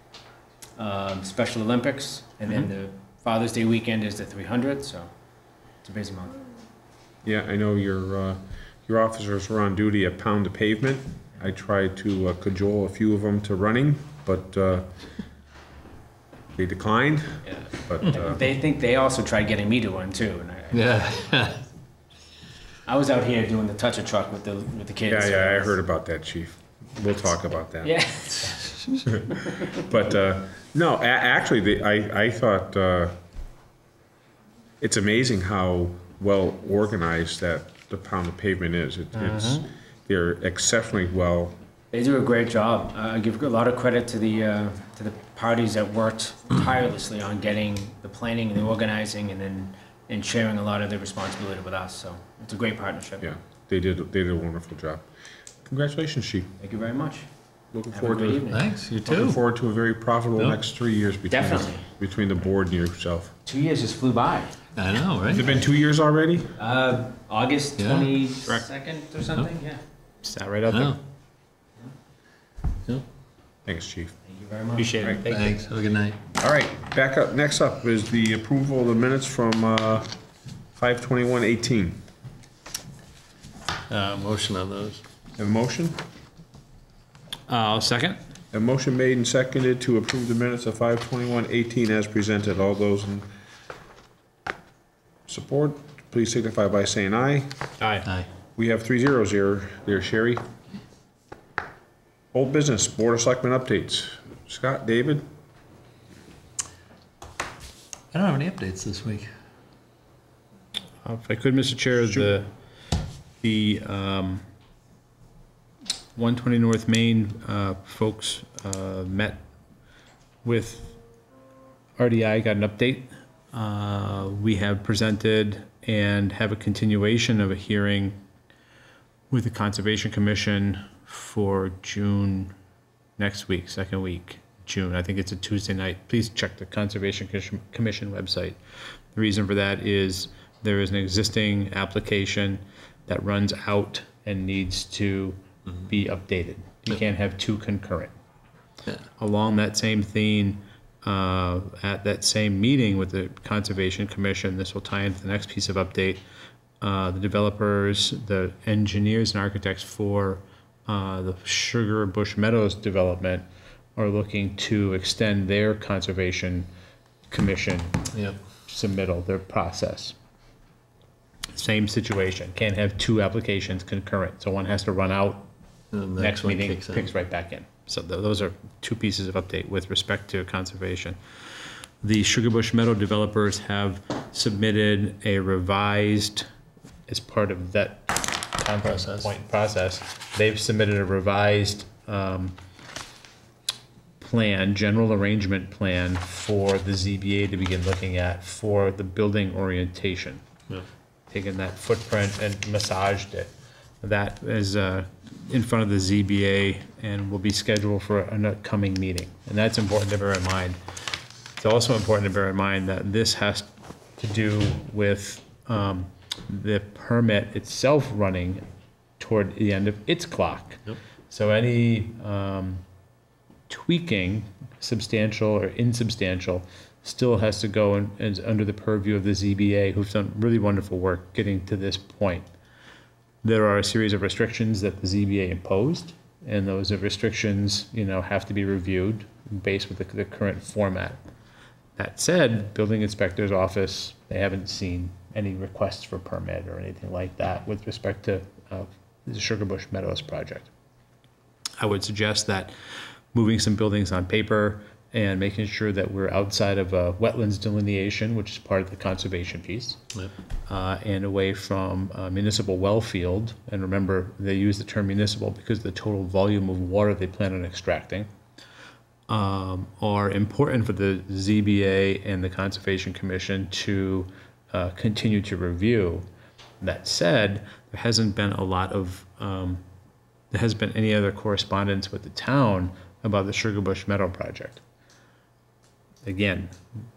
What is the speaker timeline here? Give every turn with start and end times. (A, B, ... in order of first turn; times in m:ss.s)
0:00.8-0:05.1 A
0:05.8-0:06.5 A
0:07.2-0:14.9 B
0:16.6-0:18.4 B
0:17.5-0:21.6 A
0:20.7-0:21.6 C
0:22.8-0:25.8 A
0:25.0-0:28.0 B
0:27.8-0:28.8 A
0:28.3-0:28.9 C
0:29.1-0:33.2 B
0:34.8-0:41.6 B
0:39.1-0:39.7 D
0:41.9-0:53.3 A
0:53.2-0:55.1 B
0:55.6-0:56.5 B
0:56.6-0:57.3 A
0:57.7-0:58.4 B
0:57.9-0:58.8 A
0:58.5-0:59.4 C
0:59.0-1:03.3 B
1:01.3-1:01.9 A
1:03.4-1:04.7 A
1:04.7-1:05.6 C
1:05.3-1:06.5 B
1:06.6-1:09.8 A
1:07.8-1:08.1 C
1:10.2-1:11.0 D
1:10.7-1:11.0 C
1:13.6-1:14.2 B
1:14.2-1:15.2 A
1:14.8-1:15.6 D
1:15.2-1:16.2 C
1:16.4-1:20.1 B
1:20.8-1:22.0 B
1:23.9-1:25.0 C
1:25.4-1:26.0 B
1:27.5-1:28.2 D
1:28.5-1:33.3 B
1:35.3-1:37.5 B
1:37.8-1:38.1 D
1:38.6-1:40.4 B
1:42.3-1:45.3 B
1:48.1-1:49.3 C
1:51.0-1:52.5 D
1:52.0-1:52.3 B
1:53.4-1:54.4 D
1:56.1-1:59.4 D
2:00.4-2:01.0 D
2:02.0-2:08.2 D
2:09.3-2:12.5 D
2:13.2-2:18.6 D
2:19.1-2:28.1 D
2:29.2-2:36.2 D
2:36.8-2:43.4 D
2:44.0-2:46.7 D
2:47.3-2:48.1 D
2:48.7-2:50.1 D
2:51.5-2:55.5 D
2:55.9-2:57.1 C
2:56.2-3:01.2 D
3:02.0-3:06.5 D
3:07.1-3:12.5 D
3:08.8-3:09.3 C
3:14.2-3:20.4 D
3:21.3-3:30.8 D
3:31.6-3:38.6 D
3:39.2-3:42.8 D
3:43.7-3:52.5 D
3:53.4-4:01.2 D
4:02.0-4:10.7 D
4:11.8-4:12.7 D
4:13.3-4:20.0 D
4:20.7-4:28.3 D
4:29.3-4:36.2 D
4:36.8-4:39.8 D
4:40.5-4:44.8 D
4:46.2-4:46.8 D